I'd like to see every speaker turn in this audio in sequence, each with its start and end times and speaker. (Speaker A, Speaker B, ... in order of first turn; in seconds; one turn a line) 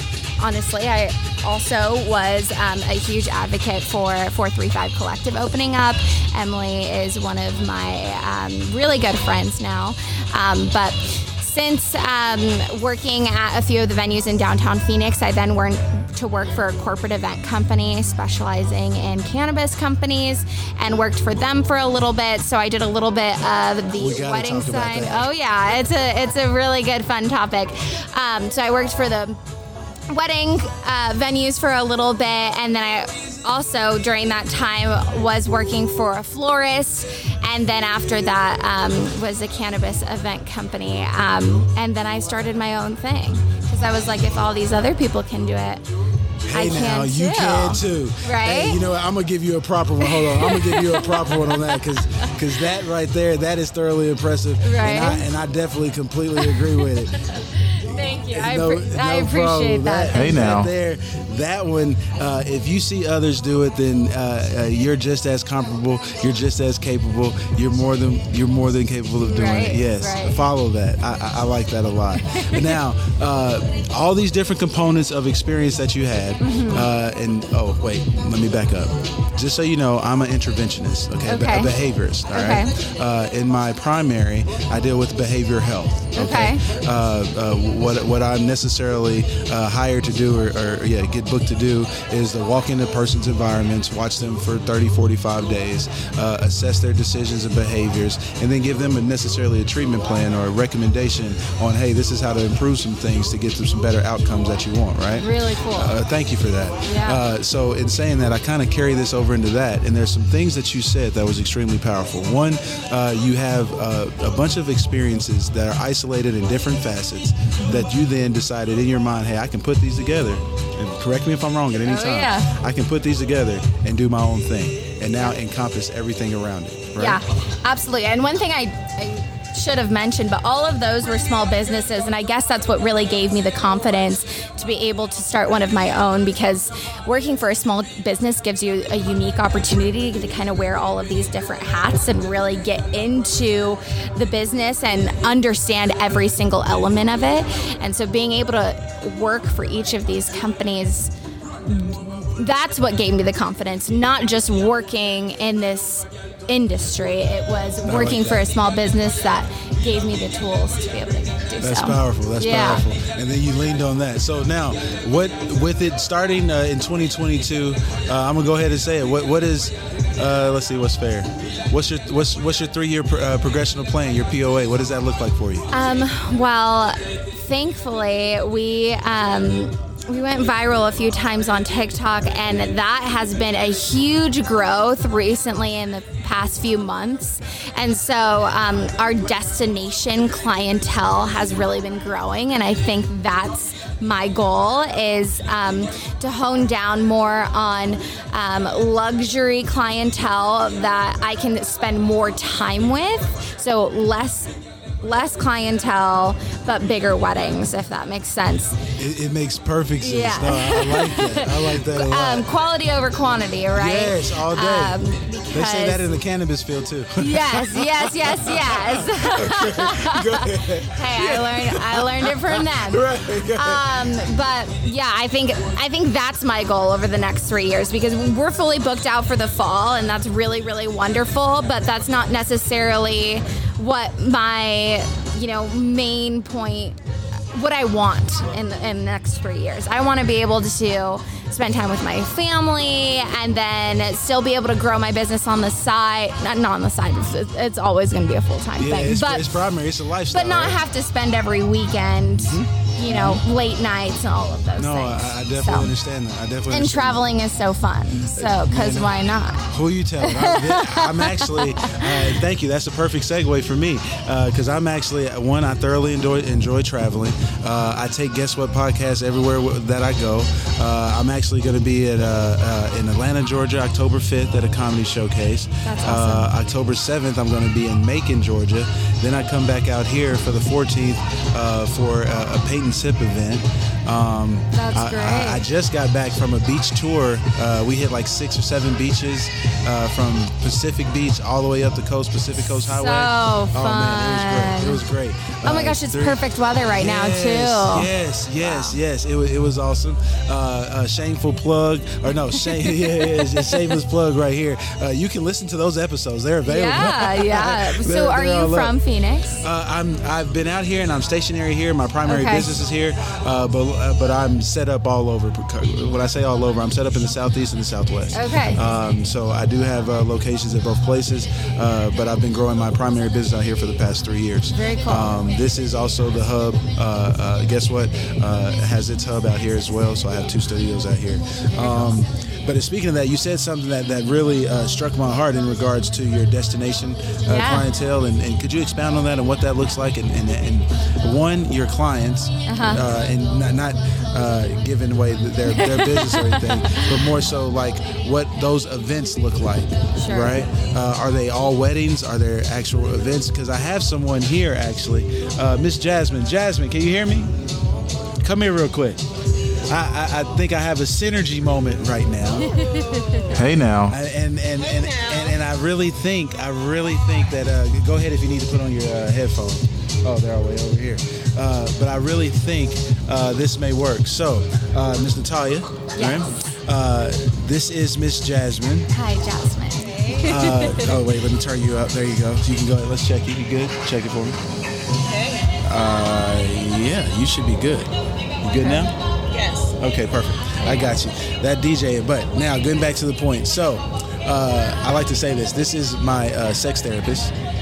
Speaker A: 0.4-29.4
Speaker B: 24.0-25.3
Speaker A: 30.1-45.8
Speaker B: 46.4-57.1
Speaker A: 46.5-48.8
Speaker A: 50.0-52.5
Speaker A: 54.6-55.2
Speaker A: 56.4-60.7
Speaker B: 58.3-127.2
Speaker A: 69.2-70.4
Speaker A: 72.2-72.8
Speaker A: 76.4-76.9
Speaker A: 81.3-81.7
Speaker A: 82.3-82.7
Speaker A: 86.1-86.6
Speaker A: 105.1-106.0
Speaker A: 106.8-107.2
Speaker A: 117.6-117.9
Speaker A: 121.8-122.5
Speaker A: 127.0-151.1
Speaker A: 151.7-162.8
Speaker B: 157.8-158.5
Speaker B: 161.6-175.7
Speaker A: 175.7-208.8
Speaker B: 209.0-212.4
Speaker A: 210.0-216.1
Speaker B: 213.7-215.0
Speaker B: 215.5-223.9
Speaker A: 217.2-237.0
Speaker A: 237.5-249.6
Speaker B: 248.8-250.8
Speaker A: 250.3-255.9
Speaker B: 252.3-253.4
Speaker B: 254.8-257.3
Speaker A: 256.7-262.4
Speaker B: 258.4-259.1
Speaker B: 259.7-296.4
Speaker A: 275.8-276.5
Speaker A: 284.7-285.6
Speaker A: 292.8-295.0
Speaker A: 295.6-299.0
Speaker B: 296.9-308.9
Speaker A: 302.5-303.9
Speaker A: 306.6-309.6
Speaker B: 309.6-357.5
Speaker A: 312.2-312.7
Speaker A: 318.3-318.8
Speaker A: 324.7-325.4
Speaker A: 331.7-332.2
Speaker A: 337.4-337.9
Speaker A: 342.6-343.0
Speaker A: 345.6-347.2
Speaker A: 350.2-350.7
Speaker B: 358.4-359.2
Speaker B: 359.9-362.7
Speaker C: 362.6-363.7
Speaker A: 362.7-363.6
Speaker B: 363.5-379.1
Speaker C: 364.8-365.6
Speaker A: 376.1-376.4
Speaker A: 379.1-381.2
Speaker C: 380.0-380.5
Speaker B: 380.4-384.6
Speaker C: 385.2-385.6
Speaker B: 385.8-389.1
Speaker A: 388.8-389.1
Speaker C: 389.5-389.9
Speaker B: 390.0-397.5
Speaker A: 390.8-391.1